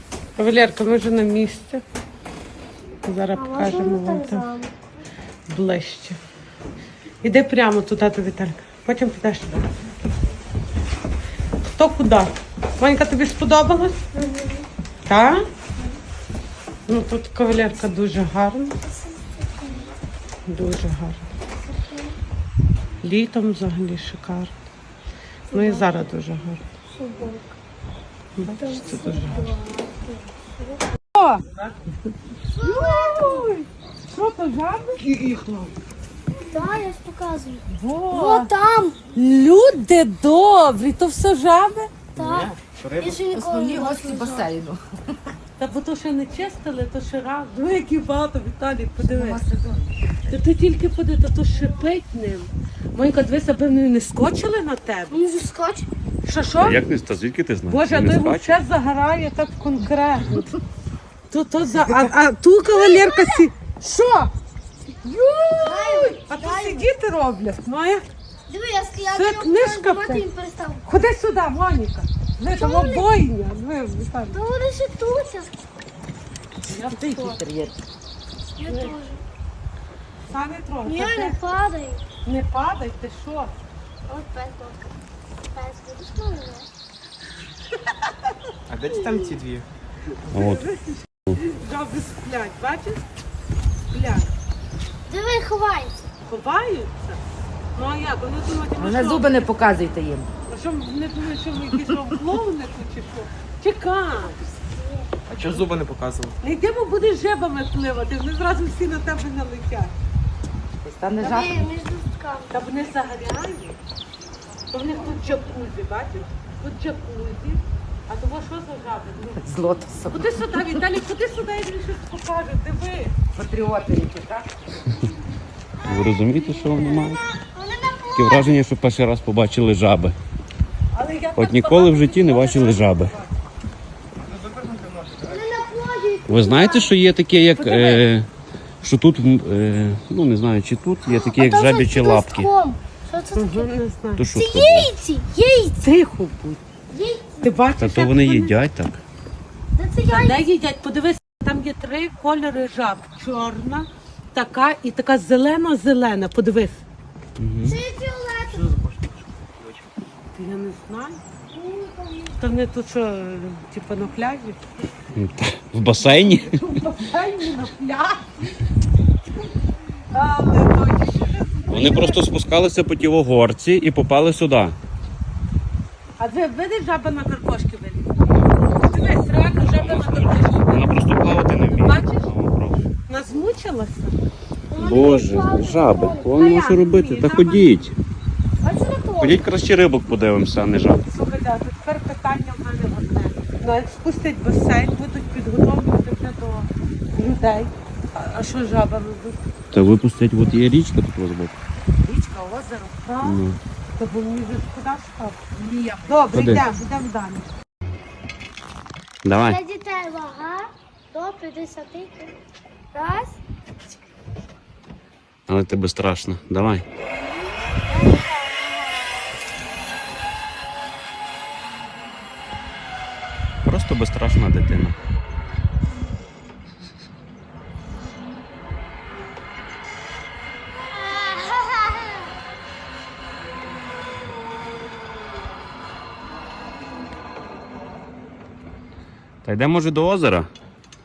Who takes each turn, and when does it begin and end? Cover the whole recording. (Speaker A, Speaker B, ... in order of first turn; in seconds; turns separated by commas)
Speaker A: 0.4-1.8, Speaker A: 3.0-4.5, Speaker B: 3.3-4.7, Speaker A: 5.5-6.2, Speaker A: 7.2-9.7, Speaker A: 11.7-14.0, Speaker B: 14.2-14.6, Speaker A: 15.1-15.4, Speaker A: 16.9-18.8, Speaker B: 19.1-19.9, Speaker A: 20.5-21.2, Speaker A: 23.0-24.5, Speaker A: 25.5-26.6, Speaker B: 25.5-25.9, Speaker B: 26.9-27.5, Speaker A: 28.4-29.5, Speaker B: 28.5-30.0, Speaker A: 31.1-31.6, Speaker B: 32.5-33.5, Speaker A: 32.6-35.1, Speaker C: 35.1-35.6, Speaker B: 36.5-39.0, Speaker A: 37.7-38.5, Speaker A: 39.1-41.9, Speaker B: 42.1-44.5, Speaker C: 42.2-42.5, Speaker C: 43.2-45.3, Speaker A: 45.6-49.4, Speaker C: 49.0-50.0, Speaker A: 50.3-55.2, Speaker B: 55.1-55.9, Speaker A: 56.2-56.8, Speaker D: 56.6-58.5, Speaker A: 57.7-60.5, Speaker A: 61.3-64.3, Speaker B: 62.7-63.5, Speaker A: 65.0-68.0, Speaker B: 65.6-66.9, Speaker B: 68.5-70.9, Speaker A: 69.1-70.2, Speaker A: 70.8-74.4, Speaker B: 72.5-73.1, Speaker B: 74.3-75.5, Speaker A: 76.7-77.4, Speaker C: 76.7-77.8, Speaker B: 78.6-79.2, Speaker A: 78.7-78.9, Speaker A: 80.3-81.4, Speaker B: 80.8-82.0, Speaker A: 82.2-83.5, Speaker B: 84.1-84.9, Speaker B: 85.5-86.7, Speaker E: 88.7-89.7, Speaker B: 89.0-89.3, Speaker A: 90.1-93.0, Speaker D: 90.3-90.6, Speaker A: 93.9-94.3, Speaker B: 95.1-96.1, Speaker A: 96.2-97.2, Speaker A: 97.7-99.5, Speaker C: 98.7-100.3, Speaker A: 100.5-104.4, Speaker B: 104.6-105.1, Speaker E: 105.3-106.3, Speaker A: 106.4-109.9, Speaker C: 110.8-111.7, Speaker B: 111.2-112.5, Speaker A: 112.5-113.8, Speaker A: 114.7-119.5, Speaker C: 119.4-120.6, Speaker A: 120.1-123.1, Speaker C: 123.3-124.5, Speaker D: 125.8-127.2, Speaker B: 125.8-128.5, Speaker D: 128.1-130.2, Speaker A: 130.9-133.3, Speaker D: 131.4-133.1, Speaker B: 135.2-136.9, Speaker D: 136.3-138.3, Speaker A: 137.6-138.0, Speaker D: 138.8-142.5, Speaker B: 141.0-143.7, Speaker A: 143.3-144.2, Speaker D: 144.2-144.9, Speaker B: 144.3-145.8, Speaker A: 145.8-146.6, Speaker B: 146.9-147.5, Speaker A: 147.4-148.5, Speaker D: 147.8-149.0, Speaker B: 149.8-150.4, Speaker A: 150.1-156.8, Speaker D: 157.4-157.8, Speaker B: 157.6-158.8, Speaker A: 160.3-161.2, Speaker B: 161.5-162.3, Speaker A: 162.4-164.6, Speaker D: 165.1-166.6, Speaker A: 166.0-168.5, Speaker A: 170.1-172.2, Speaker D: 171.7-174.8, Speaker A: 176.2-182.3, Speaker D: 179.7-182.9, Speaker A: 183.1-184.2, Speaker B: 184.7-186.3, Speaker D: 184.8-187.9, Speaker A: 186.4-187.9, Speaker B: 188.6-189.4, Speaker D: 189.2-191.0, Speaker A: 191.0-199.4, Speaker D: 199.7-201.5, Speaker C: 202.1-202.5, Speaker A: 202.2-203.4, Speaker D: 203.2-203.6, Speaker A: 204.0-205.4, Speaker C: 205.6-206.1, Speaker A: 206.0-207.5, Speaker D: 206.3-206.6, Speaker D: 209.2-209.6, Speaker B: 209.3-212.3, Speaker B: 212.9-213.4, Speaker D: 215.5-216.8, Speaker B: 217.9-218.2, Speaker D: 223.6-225.0, Speaker D: 239.4-240.5